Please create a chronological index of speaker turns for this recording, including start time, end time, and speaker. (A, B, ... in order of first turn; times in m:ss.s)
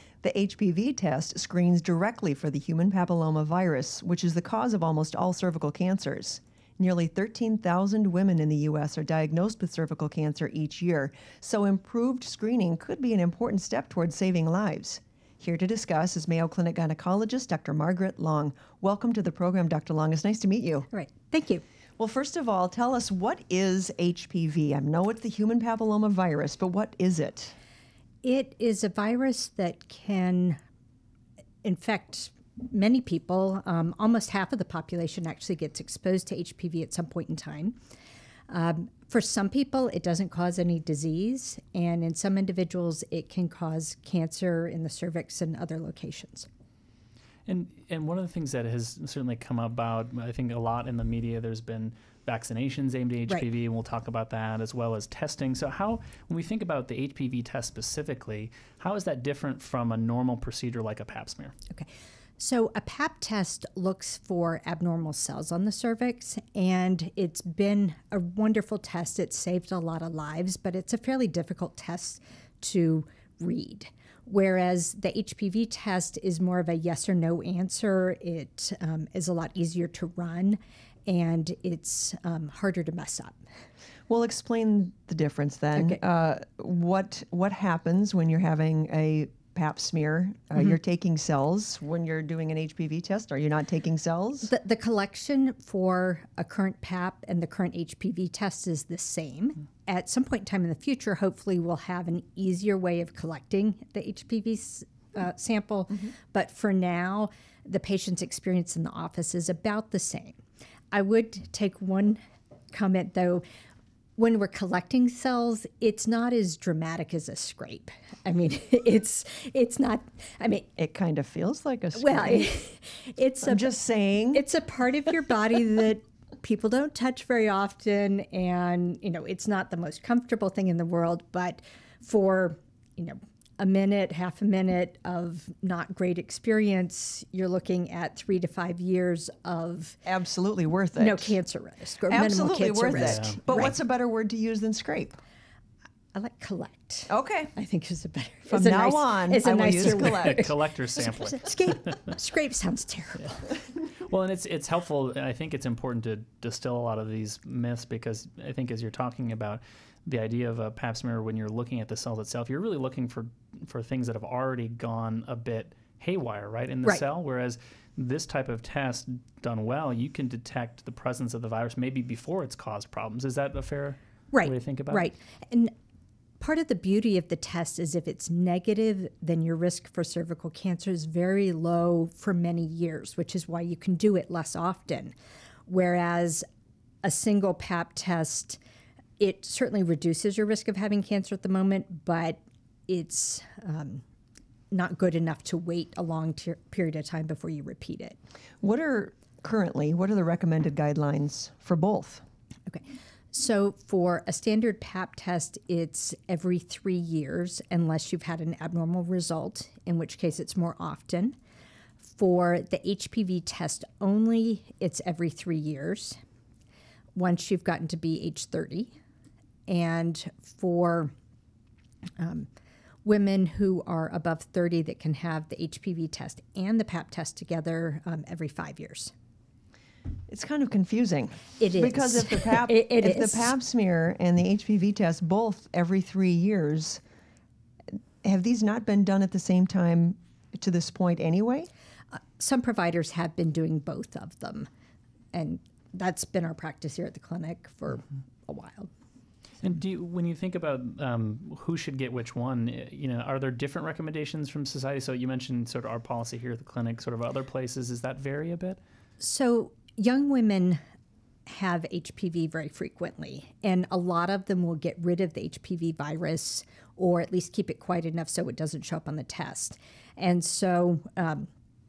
0:00.2-0:20.9 A
0:20.9-0:21.6 B
0:22.0-0:27.6 A
0:28.2-0:30.6 B
0:31.6-0:37.8 B
0:38.5-0:46.5 B
0:47.5-1:01.5 C
1:01.7-1:23.4 B
1:24.1-1:34.5 A
1:25.8-1:26.0 B
1:34.4-1:50.4 B
1:50.9-1:52.2 B
1:52.7-1:53.4 B
1:54.2-2:00.7 B
2:00.8-2:02.5 A
2:01.9-2:03.7 B
2:03.4-2:04.4 A
2:04.3-2:20.0 B
2:20.0-2:21.4 A
2:21.0-2:23.7 B
2:22.1-2:25.2 A
2:23.0-2:23.4 C
2:26.1-2:33.5 B
2:27.1-2:27.5 A
2:28.5-2:30.5 A
2:29.7-2:31.5 C
2:34.0-2:55.1 C
2:54.3-2:55.7 B
2:56.4-3:05.1 B
3:05.6-3:06.4 B
3:07.0-3:08.6 B
3:09.2-3:14.0 B
3:14.7-3:18.2 B
3:18.6-3:22.2 A
3:22.7-3:31.4 B
3:32.0-3:36.2 B
3:37.1-3:38.9 B
3:39.7-3:41.1 B
3:42.2-3:42.5 B
3:43.0-3:49.1 B
3:50.3-3:57.0 A
3:51.6-3:53.5 B
3:58.2-4:01.7 A
4:02.1-4:04.7 B
4:05.3-4:08.9 B
4:09.6-4:18.8 C
4:19.2-4:20.8 B
4:21.5-4:31.5 B